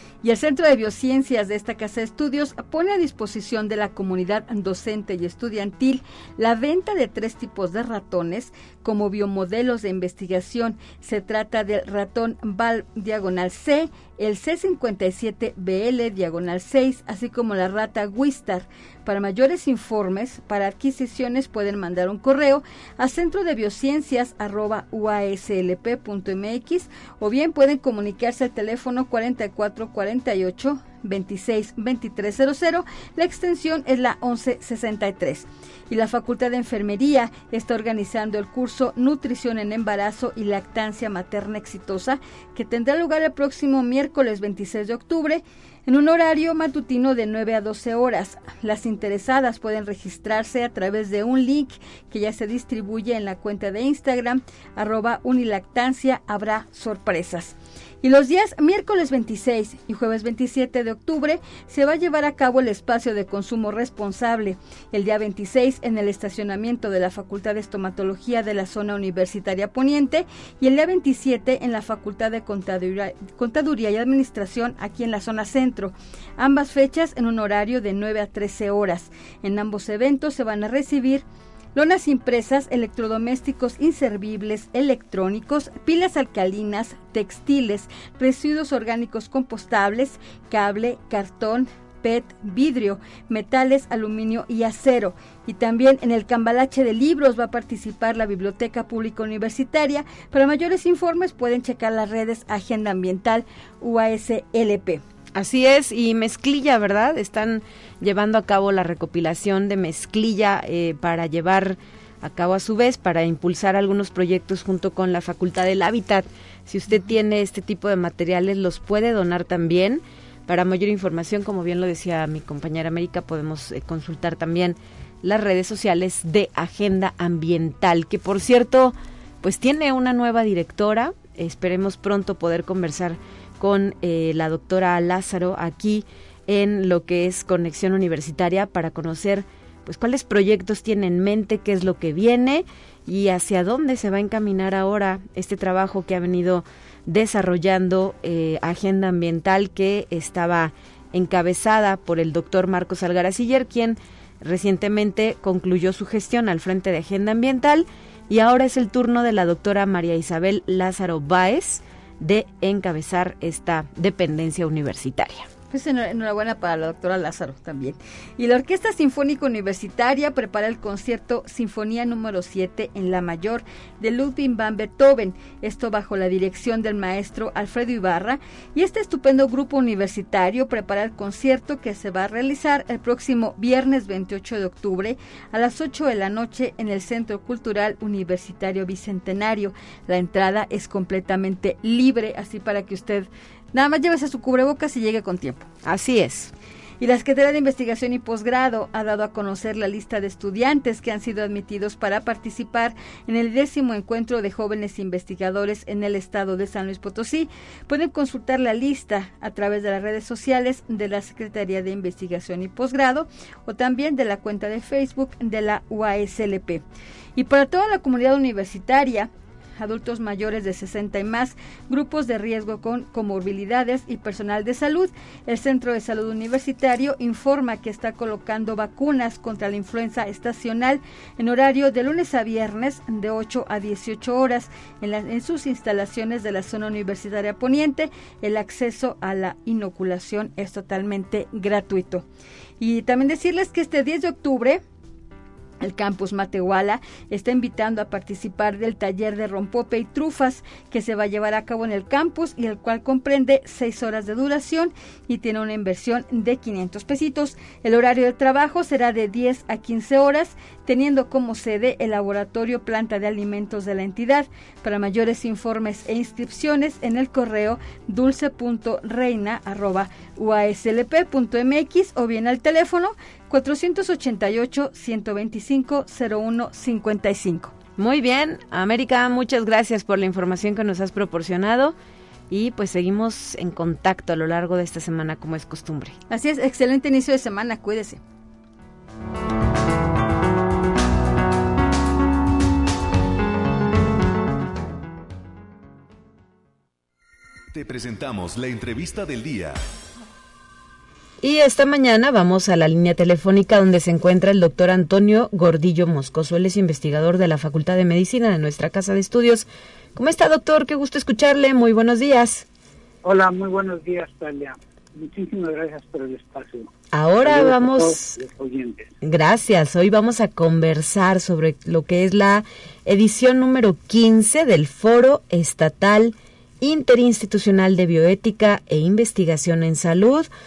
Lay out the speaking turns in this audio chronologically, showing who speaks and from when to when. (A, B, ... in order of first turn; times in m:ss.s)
0:00.2-1:45.0 A
1:45.3-2:45.5 B
2:45.7-3:15.7 A
3:15.8-3:16.5 B
3:17.0-3:36.8 A
3:37.4-4:02.3 A
4:02.8-4:04.8 A
4:05.8-4:37.7 A
4:38.0-4:42.0 B
4:42.5-4:46.2 B
4:46.3-4:48.2 A
4:57.7-4:59.8 C
5:01.4-5:12.7 B
5:13.2-5:16.9 D
5:17.1-5:18.4 B
5:17.4-5:19.1 D
5:19.2-5:30.5 B